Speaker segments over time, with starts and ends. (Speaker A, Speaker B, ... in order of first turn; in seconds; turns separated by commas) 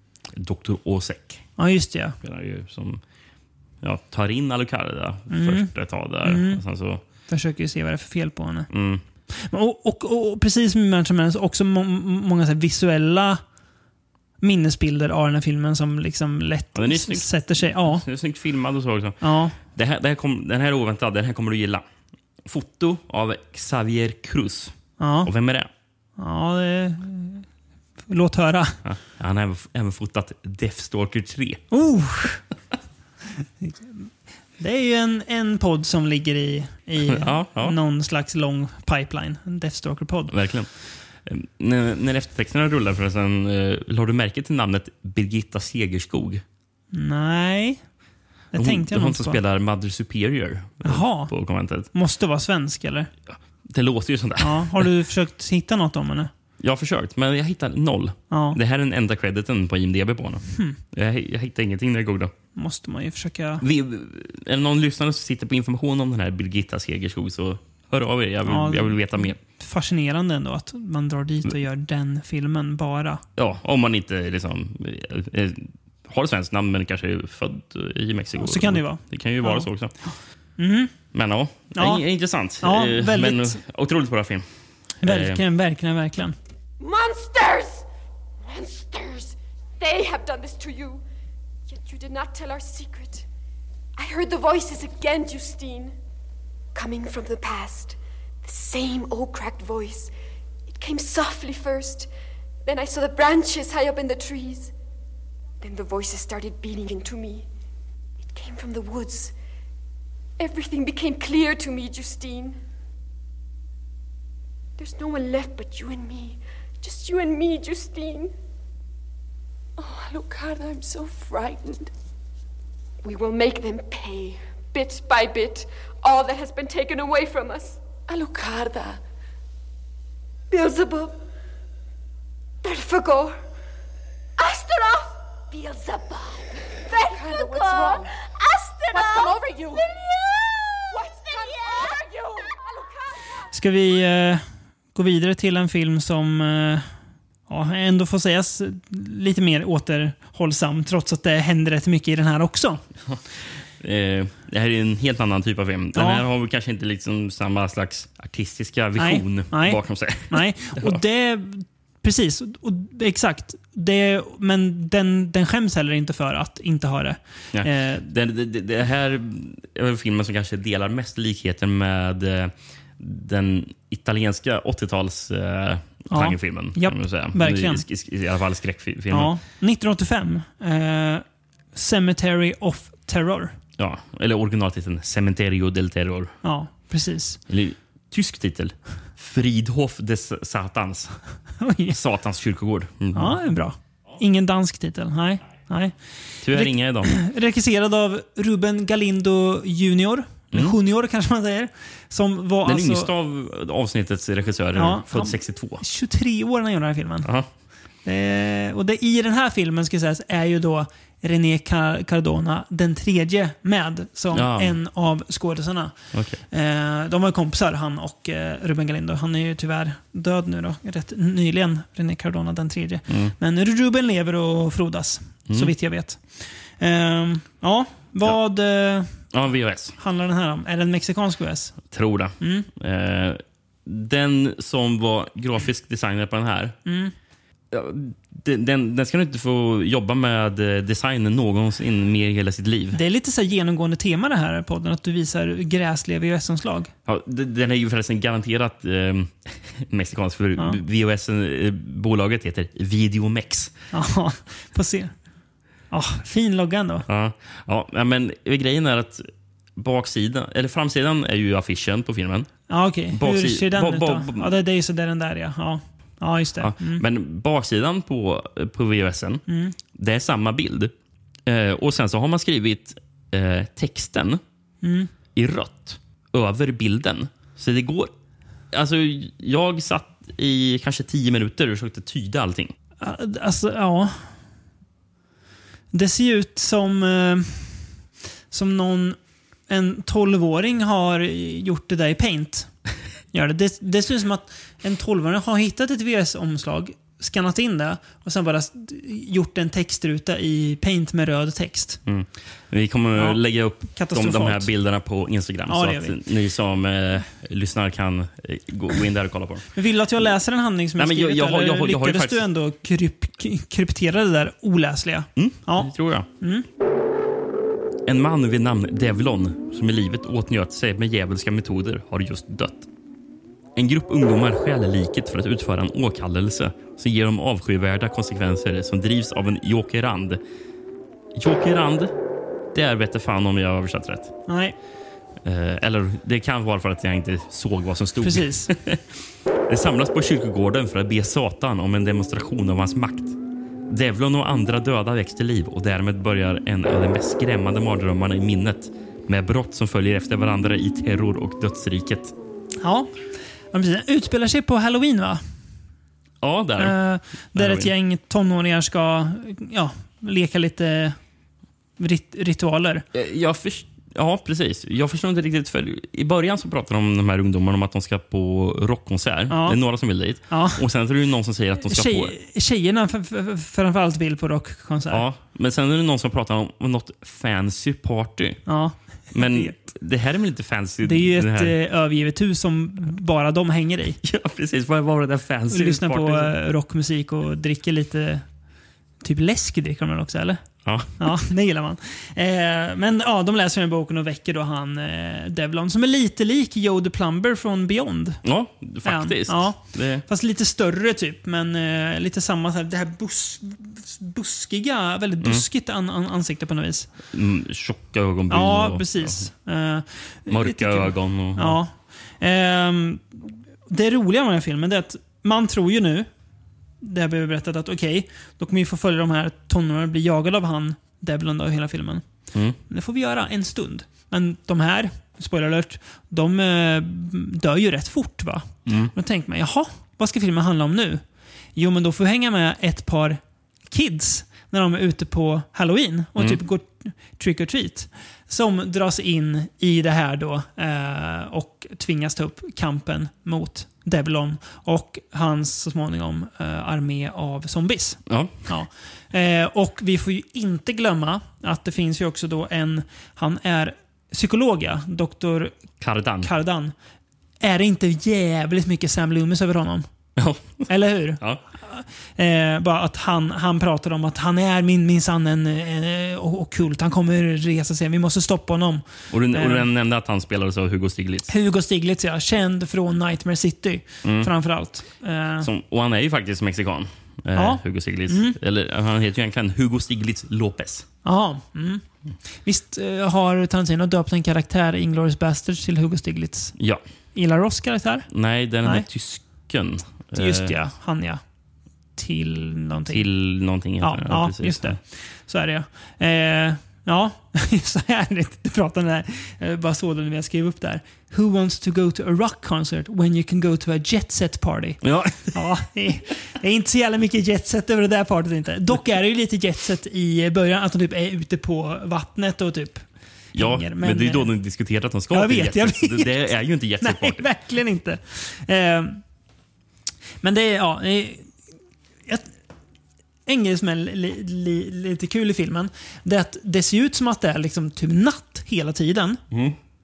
Speaker A: 0.3-1.4, Speaker B: 1.6-2.2, Speaker A: 2.2-3.0, Speaker A: 3.8-7.0, Speaker B: 5.3-5.7, Speaker B: 6.2-6.6, Speaker B: 7.3-8.7, Speaker A: 8.7-9.0, Speaker B: 9.3-13.4, Speaker B: 14.4-18.0, Speaker A: 16.8-21.9, Speaker B: 19.2-19.6, Speaker A: 22.4-25.7, Speaker B: 25.0-25.3, Speaker B: 26.2-27.5, Speaker B: 28.1-28.8, Speaker A: 28.8-31.6, Speaker B: 31.7-32.4, Speaker B: 33.6-40.3, Speaker A: 37.0-37.8, Speaker A: 40.3-40.7, Speaker A: 41.2-46.4, Speaker B: 46.9-47.8, Speaker B: 48.5-49.4, Speaker A: 48.6-51.9, Speaker B: 50.8-51.3, Speaker B: 51.9-53.1, Speaker A: 53.3-54.9, Speaker B: 54.4-56.3, Speaker A: 56.6-62.3, Speaker B: 58.3-58.6, Speaker B: 60.5-60.8, Speaker B: 62.6-63.6, Speaker A: 63.6-69.4, Speaker B: 68.5-73.2, Speaker A: 73.4-79.9, Speaker B: 78.4-79.7, Speaker B: 80.6-80.9, Speaker A: 81.1-84.5, Speaker B: 81.7-82.0, Speaker B: 82.6-83.6, Speaker B: 85.0-86.4, Speaker A: 85.0-85.4, Speaker C: 86.8-87.8, Speaker C: 88.4-91.0, Speaker C: 91.7-93.2, Speaker C: 94.0-96.0, Speaker C: 96.7-100.1, Speaker C: 100.7-102.1, Speaker C: 102.7-104.7, Speaker C: 105.6-107.5, Speaker C: 108.2-109.3, Speaker C: 110.4-112.6, Speaker C: 114.8-118.3, Speaker C: 119.8-121.9, Speaker C: 123.0-129.0, Speaker C: 130.5-131.2, Speaker C: 132.6-133.4, Speaker C: 134.4-143.0, Speaker B: 143.5-144.4, Speaker B: 144.9-146.9, Speaker B: 147.5-152.8, Speaker A: 153.8-161.0, Speaker B: 155.9-156.2, Speaker B: 159.0-168.0, Speaker A: 167.5-179.3, Speaker B: 176.1-177.8, Speaker B: 179.1-183.6, Speaker A: 183.8-186.3, Speaker B: 186.4-187.4, Speaker A: 187.5-191.2, Speaker B: 191.6-192.0, Speaker A: 191.9-193.4, Speaker B: 193.1-195.9, Speaker A: 196.4-197.2, Speaker B: 196.5-203.1, Speaker A: 202.7-205.8, Speaker B: 204.8-207.3, Speaker A: 207.2-207.5, Speaker B: 208.1-216.0, Speaker A: 214.3-214.8, Speaker A: 216.1-216.4, Speaker B: 216.5-229.1, Speaker A: 223.1-223.3, Speaker A: 229.3-230.0, Speaker B: 230.0-231.8, Speaker A: 231.9-236.8, Speaker B: 232.4-232.7, Speaker B: 236.9-237.1, Speaker A: 237.7-243.0, Speaker B: 242.9-246.9, Speaker A: 247.1-253.7, Speaker B: 253.9-255.1, Speaker B: 255.9-257.1, Speaker A: 257.1-262.5, Speaker B: 262.7-267.0, Speaker A: 263.1-264.6, Speaker A: 266.6-269.4, Speaker B: 269.5-269.8, Speaker A: 269.9-270.9, Speaker A: 271.5-274.4, Speaker B: 274.8-275.1, Speaker A: 275.3-278.1, Speaker A: 278.7-282.8, Speaker B: 283.0-284.3, Speaker B: 285.9-287.9, Speaker B: 288.5-289.2, Speaker B: 289.7-292.7, Speaker B: 293.3-302.0, Speaker A: 302.1-309.7, Speaker B: 303.2-304.7, Speaker B: 305.7-306.2, Speaker B: 309.8-316.7, Speaker A: 311.0-312.5, Speaker A: 315.4-316.3, Speaker A: 318.1-322.9, Speaker A: 323.8-330.4, Speaker A: 331.4-332.1, Speaker A: 332.7-334.4, Speaker B: 334.5-334.8, Speaker A: 335.4-339.0, Speaker B: 338.2-338.7, Speaker A: 339.7-352.4, Speaker B: 352.8-353.1, Speaker B: 353.7-355.4, Speaker A: 356.4-357.0, Speaker B: 356.8-361.2, Speaker A: 357.5-357.9, Speaker B: 362.0-363.1, Speaker A: 363.1-372.4, Speaker B: 369.5-369.8, Speaker B: 370.5-370.8, Speaker B: 371.8-375.2, Speaker A: 375.1-378.6, Speaker B: 378.7-379.8, Speaker A: 379.3-381.8, Speaker B: 381.0-384.2, Speaker A: 384.2-386.6, Speaker B: 385.7-388.5, Speaker B: 389.2-390.6, Speaker A: 390.9-391.3, Speaker B: 391.2-398.4, Speaker A: 398.4-400.2, Speaker B: 399.0-407.1, Speaker A: 407.3-409.4, Speaker B: 408.5-416.3, Speaker A: 410.5-411.8, Speaker B: 417.0-422.2, Speaker A: 422.5-422.8, Speaker B: 422.9-431.2, Speaker A: 428.9-429.1, Speaker B: 431.8-433.4, Speaker B: 433.9-455.7, Speaker A: 448.3-448.7, Speaker A: 456.0-456.5, Speaker B: 456.4-456.9, Speaker B: 457.6-460.1, Speaker A: 460.4-461.6, Speaker B: 460.9-469.9, Speaker A: 469.3-471.5, Speaker B: 471.5-475.7, Speaker A: 474.2-474.5, Speaker A: 475.6-481.1, Speaker B: 477.6-478.6, Speaker B: 481.2-482.0, Speaker B: 482.6-486.8, Speaker A: 486.8-487.0, Speaker B: 487.4-488.3, Speaker A: 488.3-490.8, Speaker B: 490.4-491.4, Speaker B: 492.2-493.2, Speaker A: 493.1-495.0, Speaker B: 494.0-513.0, Speaker A: 505.0-505.6, Speaker A: 513.5-517.5, Speaker B: 513.5-514.5, Speaker B: 515.3-516.3, Speaker B: 517.0-519.2, Speaker B: 520.4-521.5, Speaker B: 523.5-529.4